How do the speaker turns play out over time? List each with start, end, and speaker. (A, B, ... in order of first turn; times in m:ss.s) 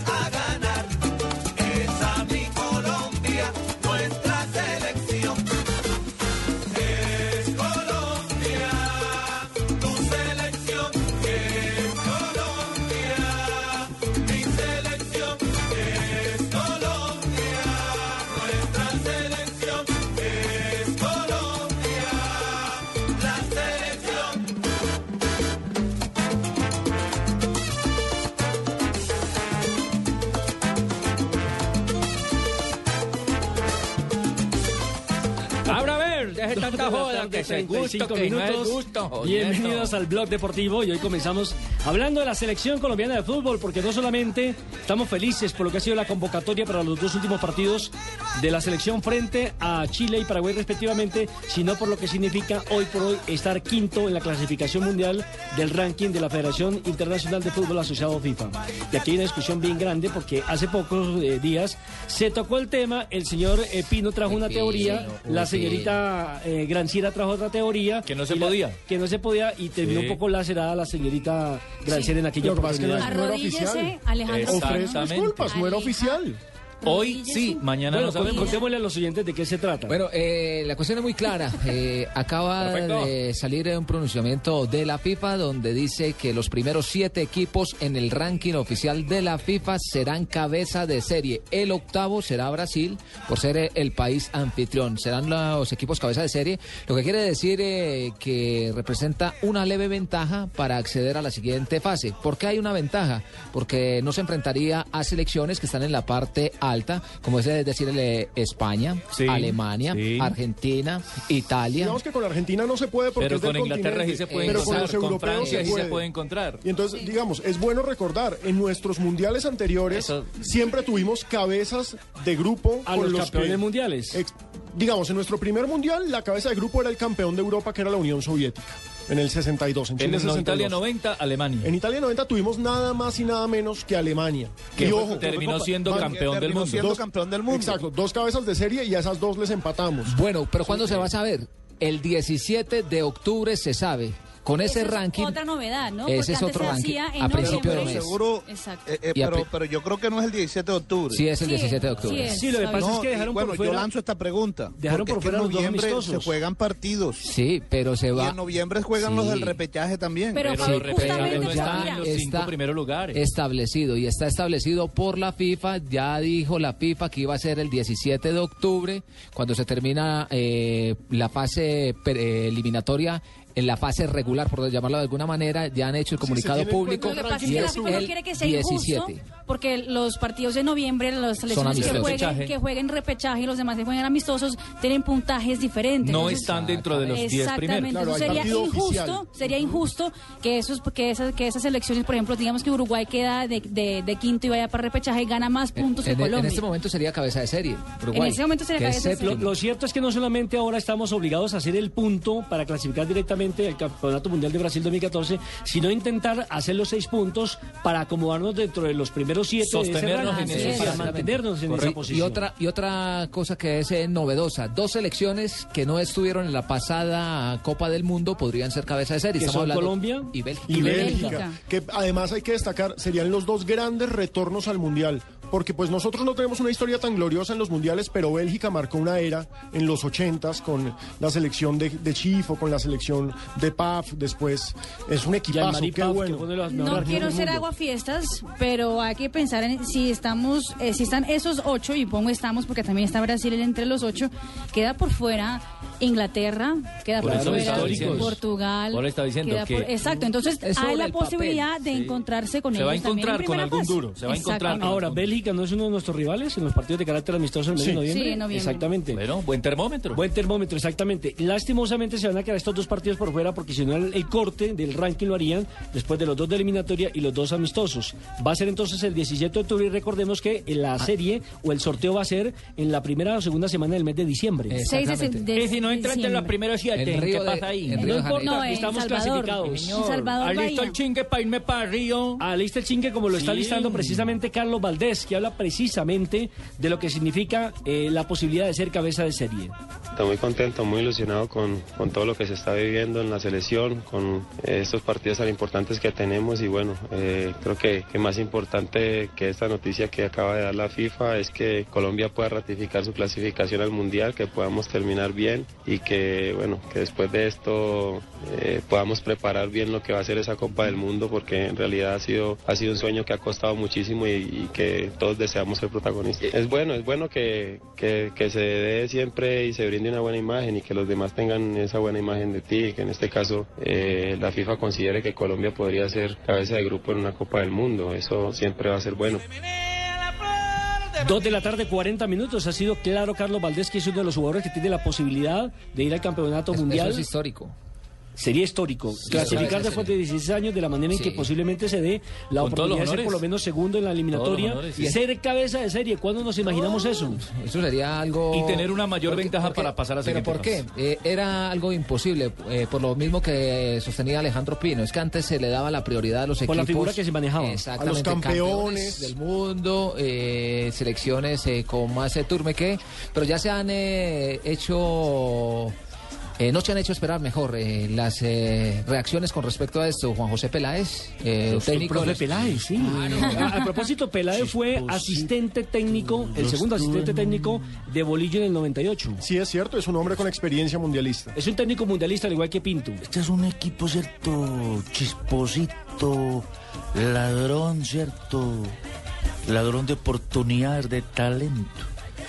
0:35.7-0:39.9 A
0:36.5-1:13.2 B
1:04.2-1:06.0 C
1:08.1-1:08.8 A
1:09.8-1:10.2 A
1:12.4-1:16.4 D
1:13.0-1:16.2 E
1:14.3-1:15.5 A
1:16.8-1:17.6 E
1:16.8-1:18.5 A
1:17.9-1:20.0 B
1:18.2-1:18.6 E
1:19.9-1:52.0 C
1:22.6-1:23.1 A
1:49.1-1:50.4 A
1:51.8-1:56.0 D
1:53.2-1:56.6 A
1:54.2-1:55.8 C
1:56.6-2:10.8 D
2:02.9-2:04.2 B
2:10.0-2:11.7 A
2:11.6-2:20.2 D
2:14.8-2:16.9 A
2:15.5-2:17.8 F
2:20.0-2:25.4 C
2:20.7-2:21.0 D
2:24.6-2:28.9 E
2:26.0-2:28.2 C
2:27.3-2:31.2 F
2:29.2-2:29.5 C
2:31.1-2:32.4 C
2:31.4-2:33.0 E
2:32.2-2:33.9 B
2:32.8-2:37.2 F
2:34.8-2:36.3 B
2:37.2-2:38.4 C
2:38.1-2:40.6 F
2:39.0-2:39.6 C
2:40.3-2:42.1 E
2:40.4-2:43.2 A
2:40.6-2:42.5 C
2:43.1-2:59.2 C
2:56.2-2:58.1 D
2:56.8-3:16.6 E
3:01.5-3:02.3 C
3:01.9-3:02.5 A
3:06.1-3:08.5 A
3:06.1-3:07.2 C
3:07.9-3:09.5 D
3:15.8-3:19.5 C
3:18.1-3:19.4 E
3:19.3-3:32.5 B
3:29.6-3:32.0 A
3:30.3-3:41.3 C
3:39.4-3:41.3 B
3:40.7-3:56.5 D
3:40.8-3:41.6 E
3:55.5-3:57.6 B
3:56.7-4:15.0 E
4:07.2-4:08.4 A
4:07.2-4:08.3 B
4:08.9-4:09.9 A
4:10.6-4:11.8 C
4:11.9-4:12.2 A
4:12.7-4:15.3 A
4:14.7-4:19.2 B
4:17.8-4:18.0 D
4:18.1-4:18.9 E
4:19.1-4:20.2 A
4:20.1-4:34.8 B
4:34.7-4:35.4 C
4:34.8-4:36.5 E
4:35.5-4:38.1 A
4:37.0-4:38.8 C
4:38.0-4:40.0 B
4:38.0-4:41.0 E
4:39.7-4:42.4 A
4:42.4-4:49.7 B
4:43.4-4:44.2 A
4:50.2-5:29.4 G
5:31.2-5:37.3 B
5:36.7-5:37.8 C
5:38.4-5:47.4 B
5:39.2-5:40.2 C
5:41.1-5:41.5 C
5:42.6-5:43.4 A
5:44.3-5:45.1 A
5:46.7-6:05.9 C
5:48.5-5:50.8 A
5:56.7-5:57.8 B
5:58.0-5:59.4 D
6:06.6-6:13.8 C
6:11.7-6:13.6 H
6:11.8-6:19.4 B
6:14.5-6:15.5 H
6:16.1-6:17.8 H
6:19.4-6:21.5 D
6:21.6-6:23.2 B
6:23.2-6:28.9 H
6:29.7-6:32.1 H